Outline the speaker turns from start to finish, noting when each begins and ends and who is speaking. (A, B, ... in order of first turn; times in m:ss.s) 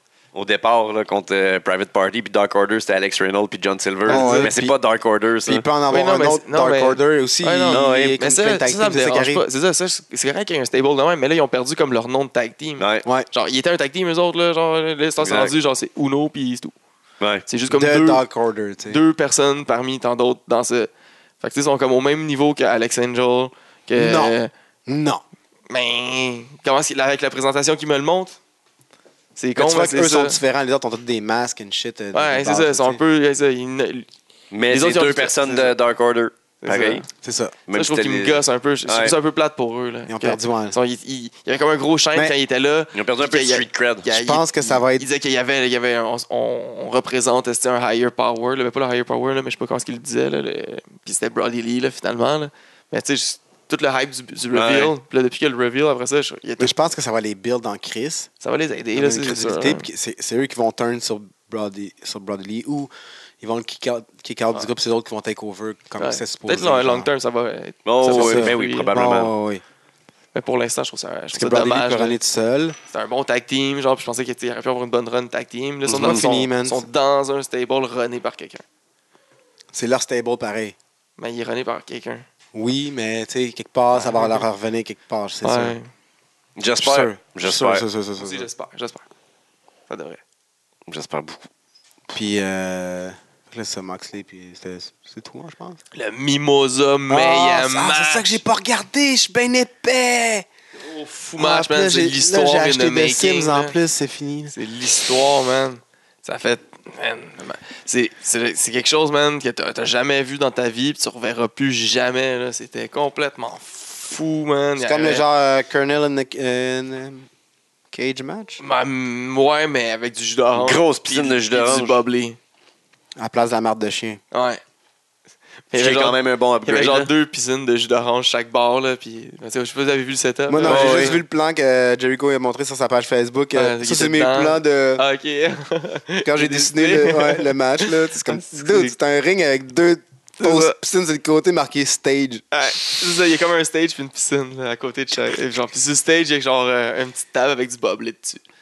0:00.3-0:05.6 A
0:04.1-0:04.5 B
0:04.1-0:04.8 C
0:05.5-0:09.4 C
0:05.9-0:16.7 B
0:07.7-0:08.2 A
0:12.8-0:13.0 A
0:15.2-0:15.5 A
0:17.2-0:17.4 A
0:17.5-0:18.2 B
0:17.7-0:19.0 C
0:18.9-0:20.9 B
0:21.4-0:24.5 B
0:24.0-0:24.4 C
0:24.9-0:25.2 C
0:25.7-0:28.4 B
0:29.4-0:30.4 B
0:29.6-0:33.0 C
0:32.1-0:34.1 B
0:34.5-0:37.0 A
0:34.7-0:35.7 B
0:36.6-0:37.1 B
0:37.2-0:37.6 C
0:37.7-0:39.2 A
0:37.7-0:56.7 B
0:40.1-0:40.8 C
0:42.9-0:44.1 A
0:44.1-0:45.1 C
0:54.5-0:54.9 A
0:56.6-0:58.3 C
0:58.4-0:59.9 B
0:59.0-1:07.1 C
1:06.0-1:08.9 B
1:07.9-1:09.3 A
1:08.1-1:09.6 C
1:10.3-1:12.2 B
1:11.3-1:12.8 C
1:12.9-1:18.6 B
1:15.9-1:16.3 A
1:16.0-1:16.9 C
1:19.7-1:20.8 C
1:21.2-1:22.2 B
1:22.5-1:25.8 C
1:23.9-1:24.4 B
1:25.4-1:25.9 B
1:26.6-1:27.8 A
1:26.8-1:28.5 C
1:28.2-1:29.0 B
1:29.9-1:30.2 B
1:30.9-1:31.4 A
1:32.1-1:35.8 C
1:35.9-1:38.4 B
1:37.1-1:40.5 C
1:40.8-1:43.8 B
1:41.4-1:44.5 C
1:44.5-1:55.2 B
1:54.8-1:57.3 C
1:57.9-1:58.6 C
1:58.6-2:02.4 B
2:00.6-2:02.0 A
2:03.2-2:04.2 C
2:04.3-2:04.6 B
2:05.7-2:11.2 B
2:05.8-2:07.1 A
2:10.5-2:15.0 C
2:10.6-2:11.2 A
2:13.6-2:18.9 B
2:16.2-2:22.4 C
2:20.4-2:20.8 B
2:22.5-2:28.4 B